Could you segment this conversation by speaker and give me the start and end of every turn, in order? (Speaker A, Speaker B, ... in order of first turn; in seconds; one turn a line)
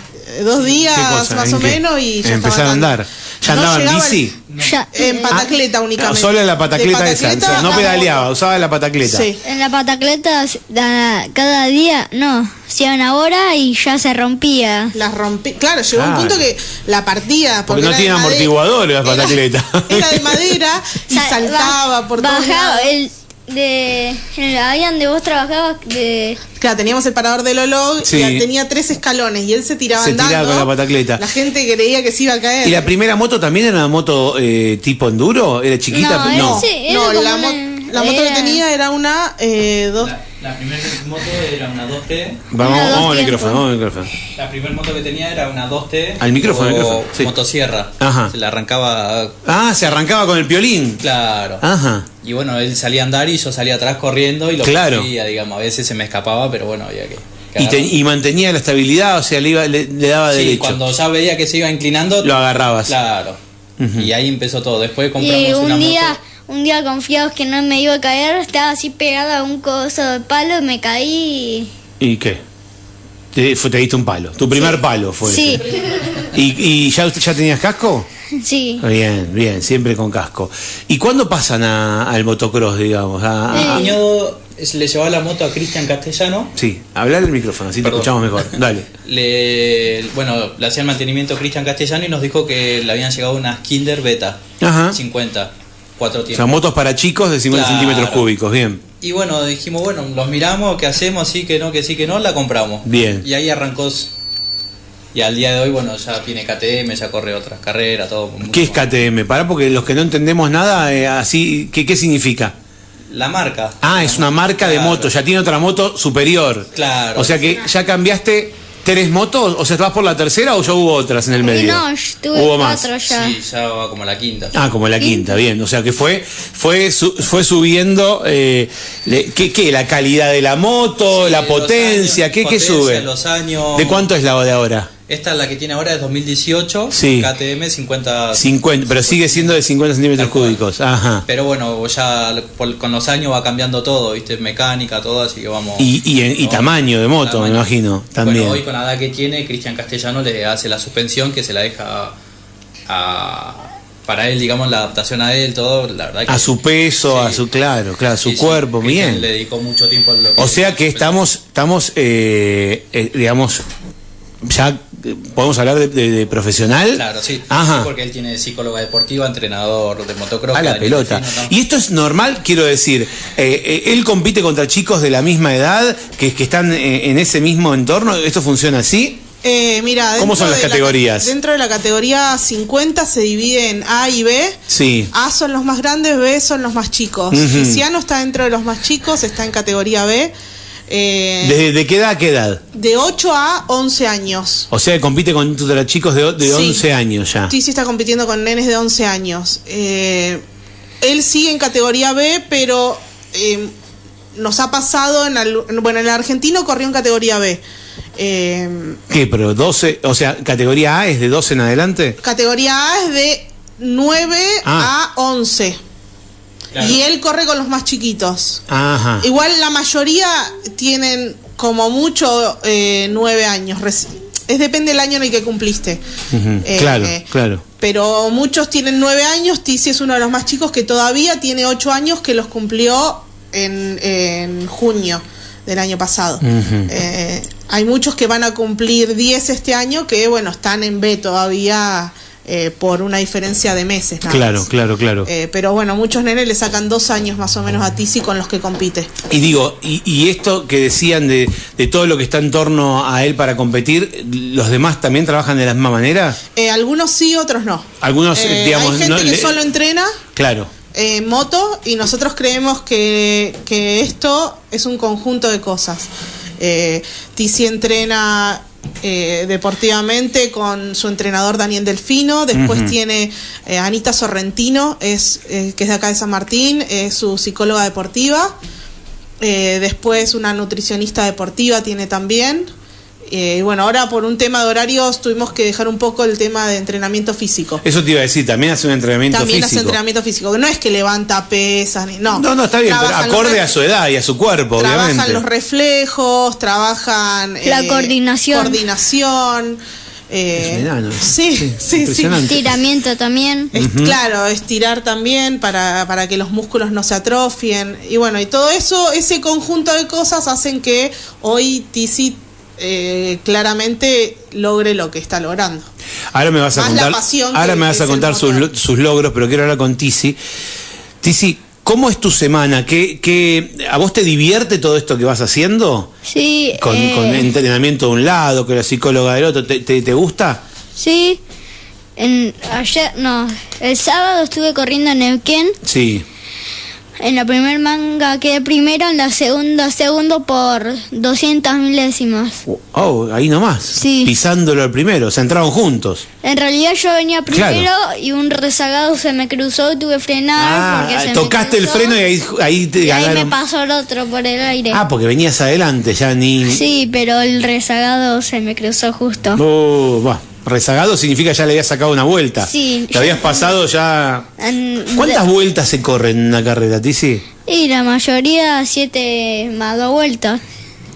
Speaker A: 0.2-4.2
Speaker B: 0.9-4.4
Speaker C: 4.5-4.8
Speaker D: 4.6-5.5
Speaker A: 4.9-8.3
Speaker B: 6.0-9.3
Speaker A: 9.0-9.4
Speaker D: 9.4-14.9
Speaker A: 14.9-22.9
Speaker B: 15.9-16.4
Speaker B: 17.7-20.6
Speaker D: 21.1-26.4
Speaker A: 26.6-32.9
Speaker B: 28.0-28.5
Speaker B: 30.0-31.2
Speaker B: 32.6-36.7
Speaker D: 35.9-38.6
Speaker A: 36.2-40.1
Speaker C: 40.0-42.5
Speaker B: 42.5-44.1
Speaker D: 42.6-43.6
Speaker C: 44.4-49.4
Speaker B: 46.2-47.3
Speaker B: 48.0-48.3
Speaker B: 49.5-51.0
Speaker C: 51.0-51.6
Speaker B: 51.6-52.1
Speaker C: 52.2-57.9
Speaker B: 54.6-55.1
Speaker B: 57.6-60.8
Speaker C: 60.3-62.3
Speaker B: 62.2-63.0
Speaker C: 62.9-63.4
Speaker B: 63.8-64.1
Speaker C: 64.0-66.2
Speaker D: 65.2-71.7
Speaker B: 72.0-72.4
Speaker B: 73.3-75.6
Speaker D: 74.5-75.6
Speaker B: 76.3-78.1
Speaker D: 78.3-78.8
Speaker B: 78.8-84.0
Speaker C: 83.5-86.5
Speaker D: 83.5-83.9
Speaker B: 86.5-88.9
Speaker C: 87.8-88.5
Speaker C: 89.0-94.4
Speaker B: 94.6-95.0
Speaker C: 94.9-96.6
Speaker B: 96.3-98.8
Speaker C: 97.5-98.2
Speaker C: 99.0-104.1
Speaker B: 102.8-103.2
Speaker C: 105.1-108.9
Speaker B: 108.5-112.5
Speaker C: 113.1-115.1
Speaker B: 113.8-122.9
Speaker C: 116.8-117.4
Speaker D: 121.4-123.3
Speaker C: 123.1-124.5
Speaker B: 124.5-133.1
Speaker D: 125.0-125.3
Speaker C: 131.1-134.1
Speaker B: 133.8-134.9
Speaker C: 135.1-139.6
Speaker B: 136.9-137.3
Speaker B: 138.3-141.2
Speaker C: 140.2-140.6
Speaker C: 141.3-147.7
Speaker B: 145.8-148.6
Speaker C: 148.2-152.2
Speaker C: 152.9-156.5
Speaker B: 156.3-159.2
Speaker C: 157.0-157.4
Speaker C: 158.2-161.2
Speaker B: 160.4-163.6
Speaker B: 164.4-167.9
Speaker C: 166.9-171.5
Speaker B: 170.5-179.2
Speaker A: 179.4-184.6
Speaker B: 180.2-181.3
Speaker B: 184.7-185.1
Speaker A: 185.1-190.3
Speaker B: 187.3-187.8
Speaker A: 190.9-191.6
Speaker B: 191.4-192.6
Speaker A: 192.7-194.7
Speaker B: 194.7-197.5
Speaker A: 196.4-196.8
Speaker A: 197.5-200.4
Speaker A: 201.0-203.7
Speaker A: 204.3-207.6
Speaker A: 208.2-209.0
Speaker B: 209.1-212.2
Speaker A: 212.2-215.8
Speaker B: 214.6-214.9
Speaker C: 216.7-217.0
Speaker A: 216.8-218.6
Speaker B: 218.7-219.3
Speaker A: 219.2-226.0
Speaker B: 226.3-227.6
Speaker A: 226.6-227.3
Speaker A: 227.8-244.7
Speaker B: 236.4-236.9
Speaker B: 244.3-245.3
Speaker A: 245.2-249.2
Speaker B: 249.3-256.4
Speaker A: 256.5-260.2
Speaker B: 258.0-259.6
Speaker B: 260.4-260.7
Speaker A: 260.9-278.5
Speaker B: 272.5-273.0
Speaker A: 279.4-282.7
Speaker A: 283.3-287.8
Speaker B: 287.8-290.0
Speaker A: 289.3-293.8
Speaker B: 292.3-295.4
Speaker A: 294.8-302.5
Speaker D: 297.6-298.8
Speaker B: 300.6-302.8
Speaker D: 302.5-303.7
Speaker B: 303.7-304.2
Speaker A: 303.7-315.9
Speaker B: 316.3-320.4
Speaker A: 316.8-318.7
Speaker B: 321.2-326.1
Speaker D: 326.3-327.5
Speaker B: 326.8-330.6
Speaker D: 331.0-331.4
Speaker D: 332.2-335.8
Speaker B: 335.8-336.3
Speaker D: 337.2-342.6
Speaker B: 342.7-346.2
Speaker D: 343.9-344.3
Speaker D: 346.4-352.2
Speaker B: 347.5-347.9
Speaker B: 350.6-353.6
Speaker D: 353.0-355.0
Speaker B: 354.9-356.9
Speaker D: 356.6-359.6
Speaker B: 359.6-364.5
Speaker D: 362.6-363.8
Speaker D: 364.6-365.4
Speaker B: 365.1-367.4
Speaker D: 367.7-370.6